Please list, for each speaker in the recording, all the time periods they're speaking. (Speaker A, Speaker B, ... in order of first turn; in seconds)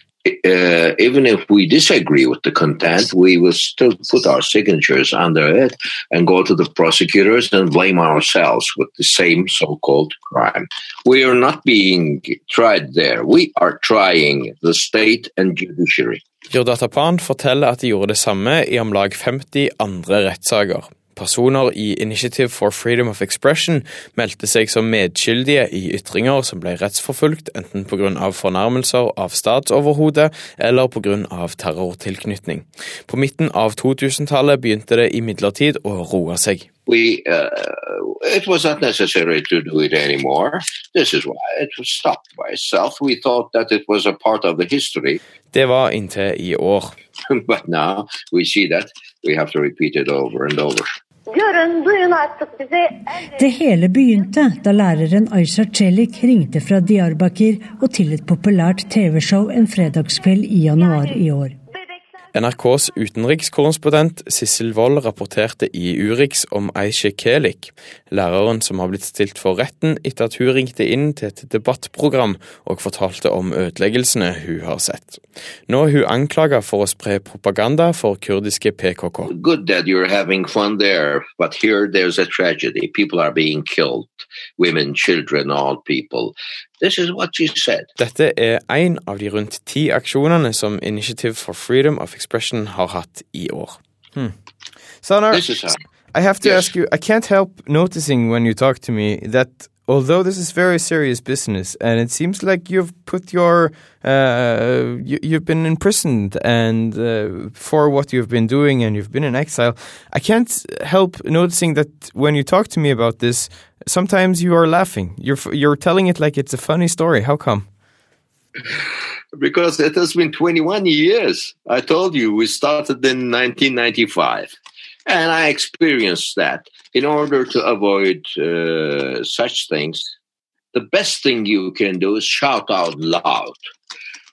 Speaker A: 0.2-16.2, 36.9-45.2, 47.3-50.9, 79.3-87.9, 95.3-95.8, 96.4-96.7, 119.4-124.5, 125.1-130.1, 130.7-133.6
Speaker B: 16.5-36.7, 45.5-47.0, 62.3-79.3, 88.0-93.8
Speaker C: 51.3-53.5, 60.8-61.2
Speaker D: 53.4-61.6
Speaker E: 95.0-95.5, 96.1-117.7